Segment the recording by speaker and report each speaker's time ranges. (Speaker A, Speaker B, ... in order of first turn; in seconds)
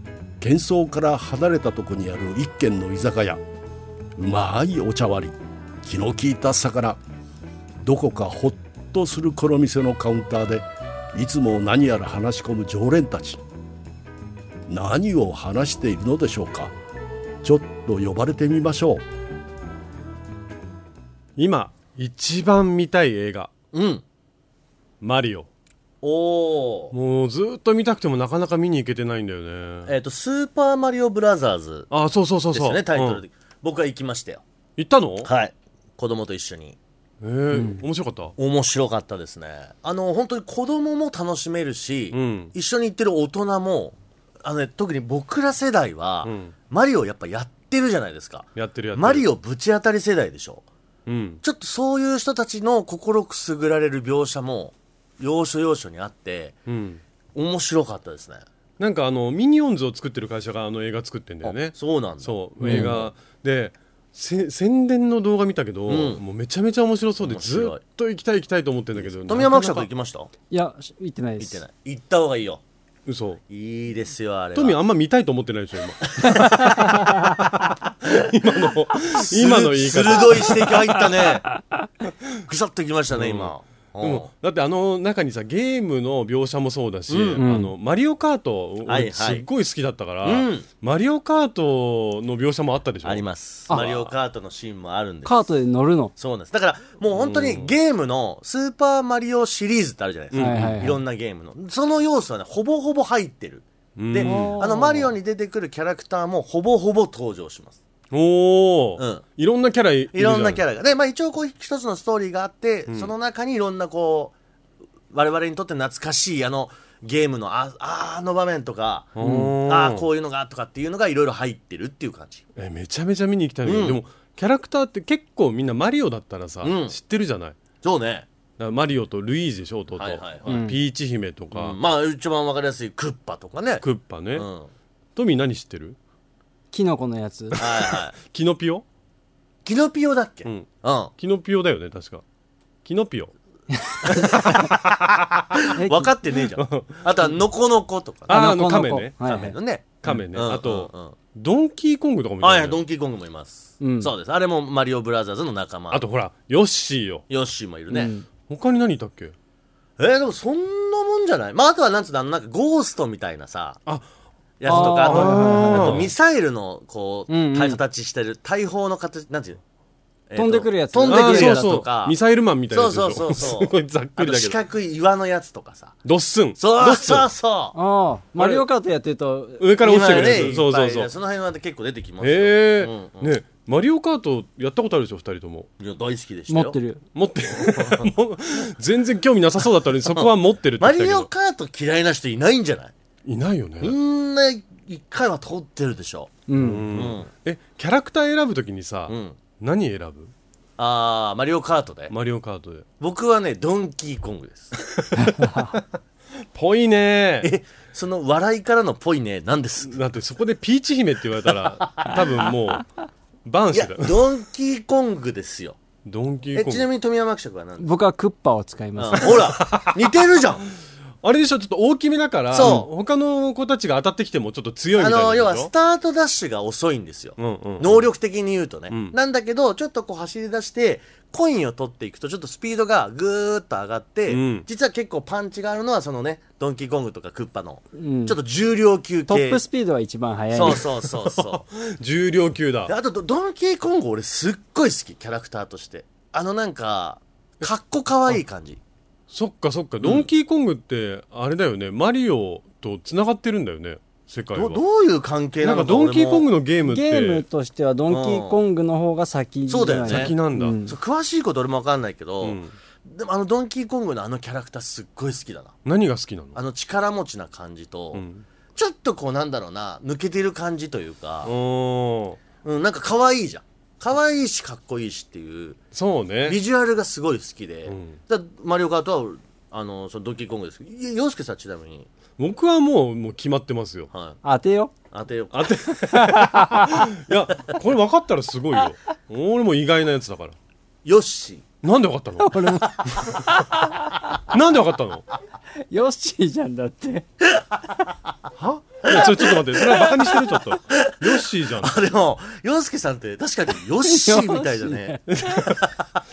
Speaker A: 0.4-3.4, 4.2-7.0, 7.8-13.4, 14.7-16.7, 17.4-19.0
Speaker B: 21.4-23.5, 25.0-25.5, 26.9-29.9, 31.9-33.2, 34.8-35.3, 37.2-38.4, 42.1-42.5, 46.2-46.5, 48.5-49.3, 51.1-51.4, 56.7-57.0, 58.8-69.9, 73.1-73.4, 74.5-80.8, 83.1-93.2, 97.2-97.7, 100.3-100.8, 104.0-104.6, 108.1-110.6, 119.2-120.1, 122.6-127.6, 128.6-131.8, 133.8-134.5, 135.2-136.0, 137.6-138.8, 140.4-142.2, 142.8-143.3, 146.5-147.3, 148.3-149.2, 150.0-152.8, 155.9-157.2, 158.5-159.3, 164.7-166.1, 171.1-174.6, 176.0-177.3, 178.4-178.7, 179.6-181.1, 182.2-185.7, 187.2-191.3, 193.2-194.0, 196.5-200.3, 202.1-202.8, 206.5-207.5, 209.8-212.9, 213.4-214.2, 216.1-216.9, 219.3-220.0, 221.2-225.7, 227.4-228.1, 228.9-229.2, 234.3-234.7, 241.2-242.9, 249.3-254.8, 255.6-257.4, 260.1-260.8, 262.4-262.7, 265.9-266.6, 268.1-268.4, 271.4-272.4, 275.9-276.6, 277.9-278.2, 282.4-284.1, 285.5-290.6, 291.8-293.4, 294.5-295.3, 298.6-302.0, 305.3-305.8
Speaker C: 23.7-24.0, 26.0-26.9, 29.9-31.9, 32.5-34.4, 35.2-36.8, 38.4-50.6, 51.4-56.6, 57.3-58.5, 61.4-63.1, 65.9-66.2, 67.2-67.8, 69.0-70.3, 71.4-72.6, 73.5-74.8, 76.1-77.0, 79.1-81.5, 82.5-84.3, 87.1-87.4, 88.9-89.5, 90.2-90.7, 93.0-95.4, 96.2-107.8, 109.0-109.2, 110.1-114.3, 115.1-119.2, 119.7-122.5, 123.7-124.0, 126.6-127.0, 127.8-128.3, 130.0-130.6, 131.5-133.8, 134.3-134.7, 137.6-138.2, 139.7-141.1, 144.1-148.4, 149.2-151.2, 152.4-156.0, 157.3-158.1, 160.0-163.8, 164.6-169.6, 170.3-172.2, 172.7-176.0, 176.6-177.8, 179.8-183.3, 185.8-186.8, 187.7-188.1, 190.1-192.9, 193.8-197.3, 199.1-199.4, 200.8-202.1, 203.0-204.8, 207.4-210.0, 211.8-212.5, 213.7-215.8, 216.5-217.9, 219.0-220.7, 222.5-222.9, 224.9-239.6, 240.5-241.7, 242.9-248.8, 250.0-250.3, 254.5-256.5, 258.1-258.6, 259.7-265.8, 266.6-268.2, 268.7-271.5, 272.6-275.8, 276.4-282.1, 284.1-284.4, 285.1-285.9, 291.0-291.7, 299.1-305.9
Speaker D: 37.5-37.8, 62.6-63.0, 70.5-71.6, 87.4-87.7, 93.7-94.2, 95.2-96.1, 100.4-101.0, 104.2-105.1, 119.2-119.5, 130.5-130.8, 136.7-137.6, 143.7-144.4, 145.8-146.1, 148.3-149.6, 153.8-154.1, 157.9-158.3, 164.7-166.0, 167.3-167.8, 170.4-171.7, 177.8-179.7, 186.5-187.0, 196.5-196.9, 205.2-205.8, 217.8-219.5, 237.9-238.4, 239.3-240.9, 256.8-261.0, 284.4-284.9, 286.1-287.1, 292.4-294.1, 295.9-297.3, 304.0-305.2